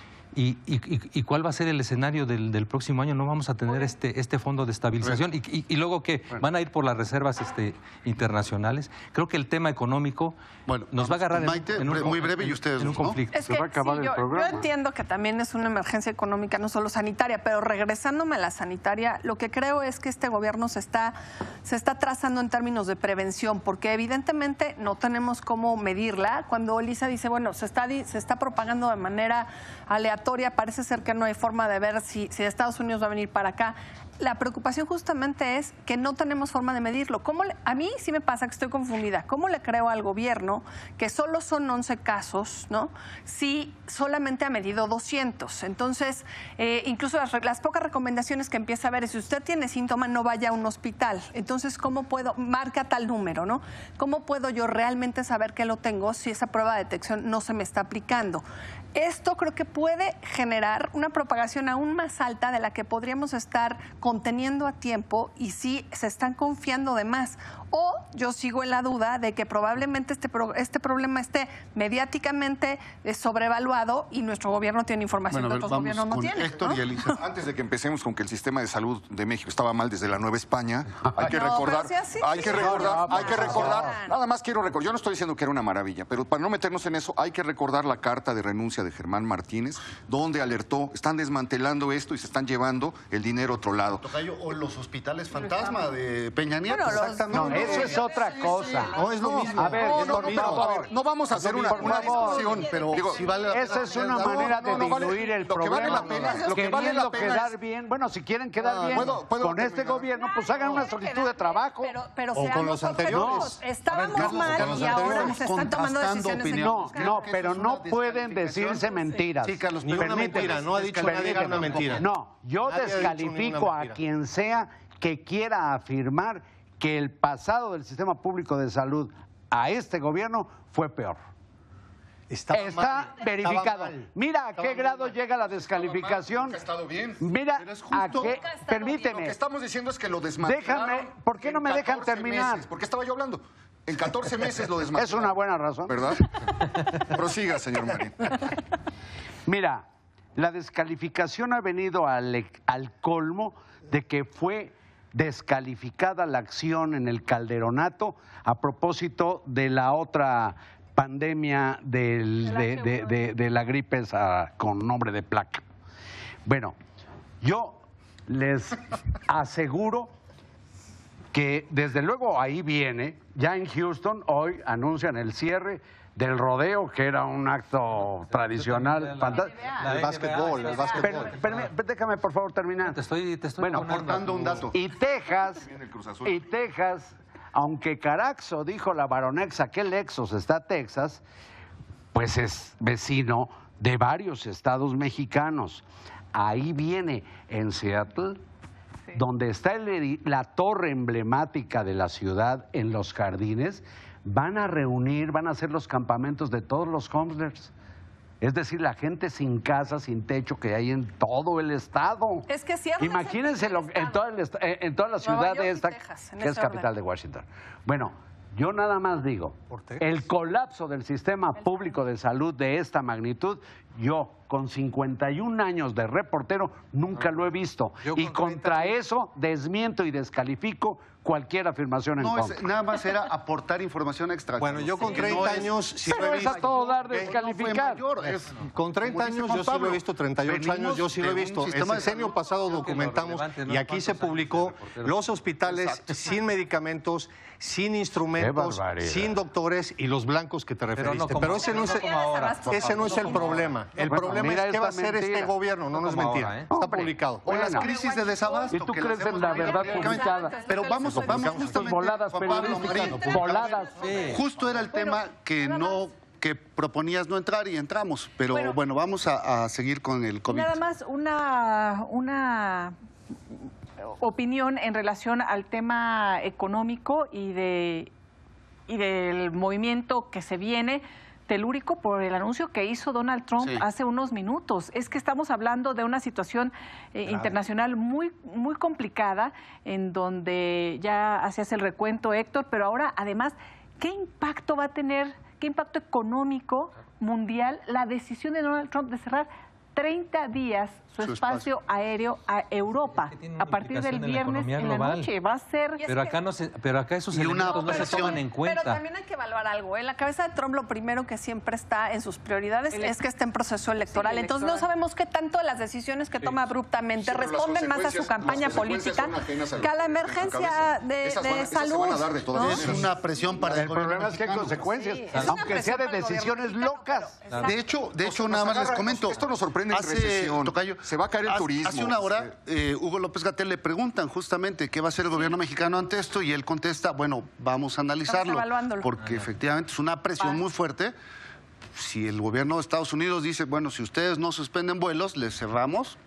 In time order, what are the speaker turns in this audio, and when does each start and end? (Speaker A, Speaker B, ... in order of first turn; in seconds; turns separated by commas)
Speaker A: 0.3-10.4, Speaker B: 10.7-13.2, Speaker A: 10.9-13.3, Speaker C: 13.3-76.8, Speaker D: 13.3-14.7, Speaker B: 75.3-77.2, Speaker E: 77.0-94.2, Speaker C: 81.2-84.2, Speaker D: 82.4-83.9, Speaker B: 94.0-98.0, Speaker C: 95.5-95.8, Speaker C: 96.7-98.0, Speaker F: 96.8-98.0, Speaker D: 97.3-102.6, Speaker E: 97.8-107.5, Speaker F: 98.9-100.7, Speaker B: 99.9-100.4, Speaker B: 101.3-104.9, Speaker D: 103.5-112.0, Speaker C: 105.8-106.7, Speaker E: 108.8-110.1, Speaker C: 110.2-117.3, Speaker F: 112.3-115.4, Speaker D: 113.1-113.5, Speaker B: 114.0-122.0, Speaker D: 116.6-131.2, Speaker F: 119.8-122.1, Speaker F: 122.6-124.0, Speaker F: 132.3-134.0, Speaker D: 132.5-136.6, Speaker E: 134.5-138.2, Speaker D: 137.2-139.4, Speaker C: 138.0-138.9, Speaker E: 138.9-148.4, Speaker D: 140.4-142.7, Speaker D: 144.9-146.0, Speaker D: 149.4-165.6, Speaker G: 162.4-163.2, Speaker D: 166.4-166.8, Speaker D: 167.4-170.1, Speaker D: 171.3-179.7, Speaker A: 178.0-181.7, Speaker F: 179.8-181.3, Speaker D: 181.0-183.0, Speaker A: 182.8-184.7, Speaker D: 183.6-184.1, Speaker B: 183.7-184.8, Speaker D: 184.7-185.7, Speaker E: 185.3-186.4, Speaker D: 186.2-191.2, Speaker D: 192.1-198.4, Speaker D: 199.1-207.7, Speaker D: 208.4-212.5, Speaker C: 212.5-214.2, Speaker D: 213.0-232.6, Speaker C: 215.2-216.9, Speaker F: 219.7-220.0, Speaker F: 228.0-228.9, Speaker B: 232.2-242.3, Speaker F: 234.6-237.3, Speaker D: 235.3-238.0, Speaker F: 238.7-252.1, Speaker A: 242.6-245.2, Speaker D: 248.4-249.3, Speaker A: 250.9-253.7, Speaker C: 251.4-253.6, Speaker F: 252.7-257.5, Speaker D: 253.9-255.5, Speaker A: 255.9-256.7, Speaker D: 256.7-257.9, Speaker B: 257.4-270.8, Speaker C: 257.5-266.0, Speaker D: 258.7-260.7, Speaker F: 261.0-261.9, Speaker D: 261.5-264.3, Speaker A: 264.0-264.4, Speaker G: 268.5-268.8, Speaker G: 270.5-272.9, Speaker G: 274.0-278.1, Speaker G: 278.9-306.0, Speaker B: 283.6-283.8, Speaker B: 287.3-287.6, Speaker B: 301.2-301.6, Speaker A: 303.1-305.3, Speaker C: 306.0-306.4, Speaker A: 306.1-309.0, Speaker B: 307.3-308.4, Speaker C: 307.7-323.5, Speaker G: 312.9-313.2, Speaker G: 314.1-314.9, Speaker E: 317.2-323.1, Speaker B: 322.6-324.9, Speaker D: 323.7-327.5, Speaker C: 324.8-327.8, Speaker A: 325.3-325.7, Speaker A: 327.5-327.7, Speaker B: 327.6-341.1, Speaker E: 328.2-332.5, Speaker C: 338.2-339.1, Speaker A: 339.2-339.5, Speaker B: 341.9-346.2